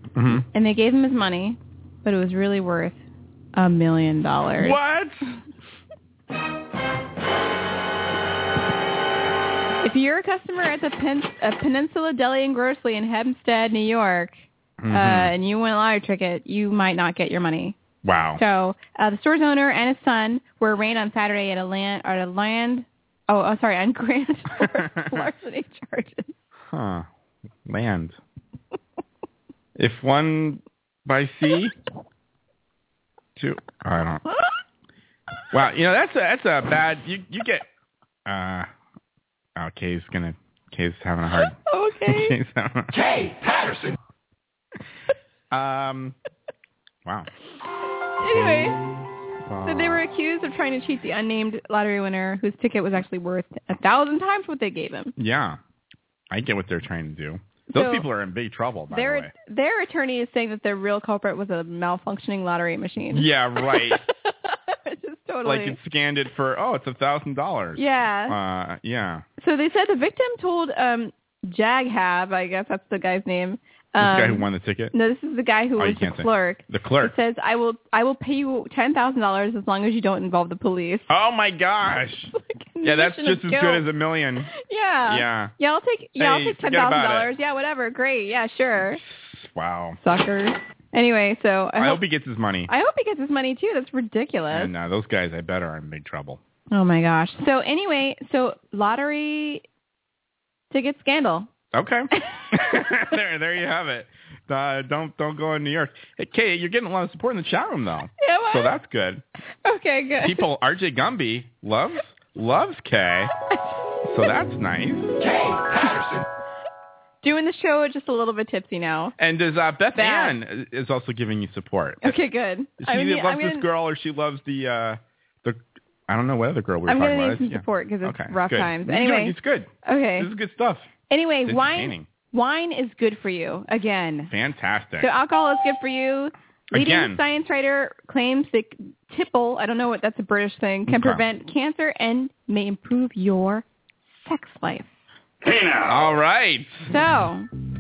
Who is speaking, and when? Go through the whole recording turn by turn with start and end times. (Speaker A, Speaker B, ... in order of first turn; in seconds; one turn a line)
Speaker A: 0.1-0.5
Speaker B: 0.5-3.0
Speaker B: 3.5-4.8
Speaker A: 4.6-5.4
Speaker B: 9.8-17.8
Speaker A: 14.8-15.3
Speaker A: 18.0-18.4
Speaker B: 18.4-26.3
Speaker A: 24.6-25.3
Speaker A: 26.7-27.1
Speaker A: 27.6-28.2
Speaker A: 29.8-31.8
Speaker A: 33.4-34.2
Speaker A: 35.5-37.7
Speaker A: 38.3-38.7
Speaker A: 39.6-42.9
Speaker B: 41.6-42.4
Speaker C: 42.9-44.0
Speaker A: 45.5-46.2
Speaker B: 48.2-48.8
Speaker A: 48.3-48.7
Speaker A: 49.4-50.0
Speaker B: 49.6-55.1
Speaker A: 55.2-55.6
Speaker A: 56.3-59.3
Speaker B: 57.7-58.1
Speaker B: 58.9-65.8
Speaker A: 63.1-64.0
Speaker A: 65.4-69.2
Speaker B: 67.8-68.4
Speaker B: 69.4-81.1
Speaker A: 74.0-74.9
Speaker A: 75.8-77.1
Speaker A: 81.1-82.3
Speaker B: 82.3-83.9
Speaker A: 82.8-84.5
Speaker B: 84.6-89.0
Speaker A: 85.1-85.5
Speaker A: 86.2-87.3
Speaker A: 89.0-90.0
Speaker B: 90.0-92.0
Speaker A: 91.8-92.7
Speaker B: 92.7-94.7
Speaker A: 94.5-96.4
Speaker B: 96.7-99.6
Speaker B: 100.7-101.5
Speaker A: 101.7-109.2
Speaker B: 102.2-102.9
Speaker B: 108.2-108.8
Speaker B: 109.6-110.4
Speaker A: 110.2-113.3
Speaker A: 114.0-115.1
Speaker C: 115.2-116.2
Speaker B: 117.2-119.1
Speaker A: 119.2-122.2
Speaker B: 120.0-120.4
Speaker B: 122.0-123.7
Speaker A: 122.8-130.9
Speaker B: 126.9-130.3
Speaker B: 131.1-134.3
Speaker A: 131.4-132.1
Speaker A: 134.3-135.1
Speaker B: 135.0-145.1
Speaker A: 136.7-137.2
Speaker A: 140.9-141.2
Speaker A: 145.8-146.9
Speaker B: 146.9-147.5